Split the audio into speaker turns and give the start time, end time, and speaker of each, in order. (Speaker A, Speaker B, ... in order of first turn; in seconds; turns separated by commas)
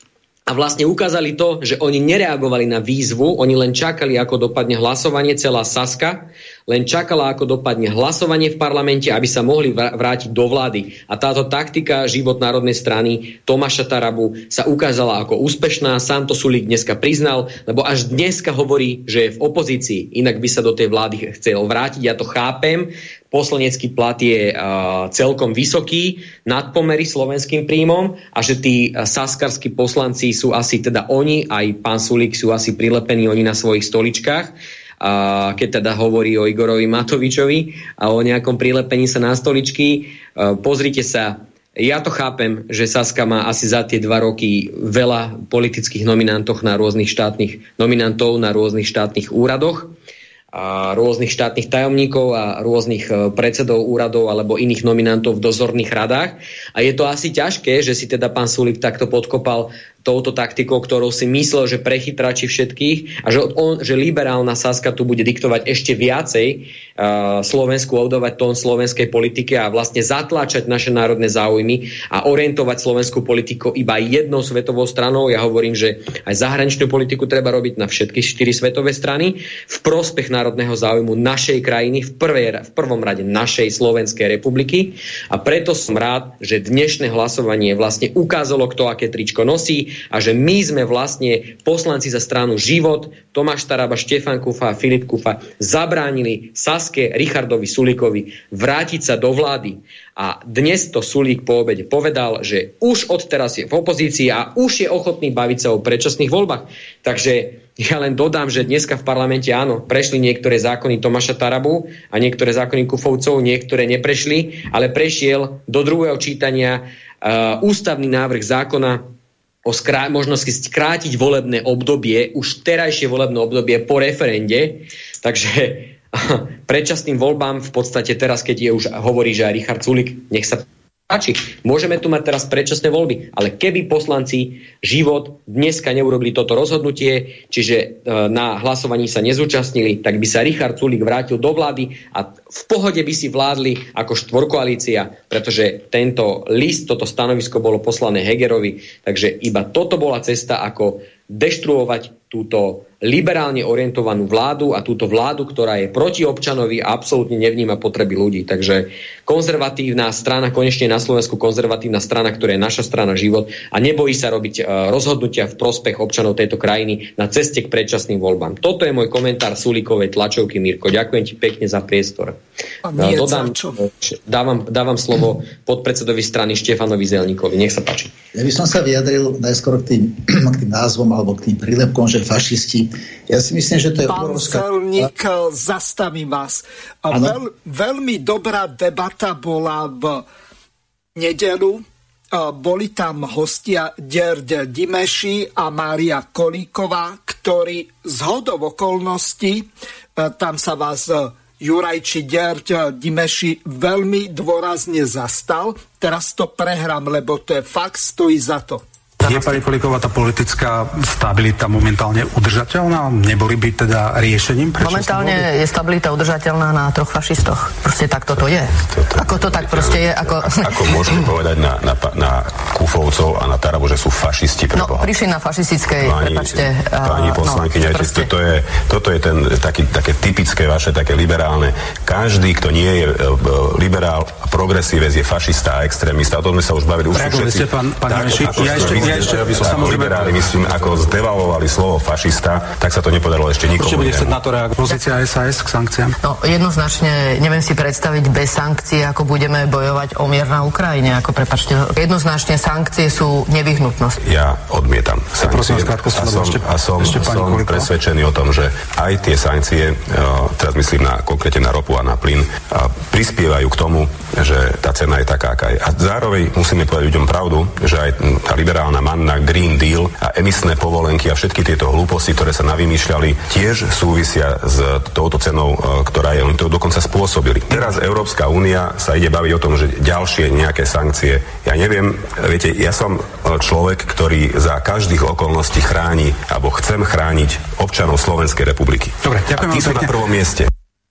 Speaker A: 0.5-49.9, Speaker A: 50.5-119.1, Speaker A: 119.7-172.4, Speaker B: 172.8-173.8, Speaker A: 173.0-178.1, Speaker C: 178.3-185.1, Speaker B: 184.1-190.2, Speaker C: 187.1-187.4, Speaker B: 191.2-208.8, Speaker D: 209.2-215.5, Speaker E: 214.8-221.2, Speaker F: 218.9-225.1, Speaker E: 224.8-228.3, Speaker F: 225.9-244.3, Speaker D: 237.1-240.4, Speaker D: 243.8-246.1, Speaker E: 246.2-254.2, Speaker F: 254.2-290.7, Speaker D: 255.4-257.9, Speaker D: 289.2-290.2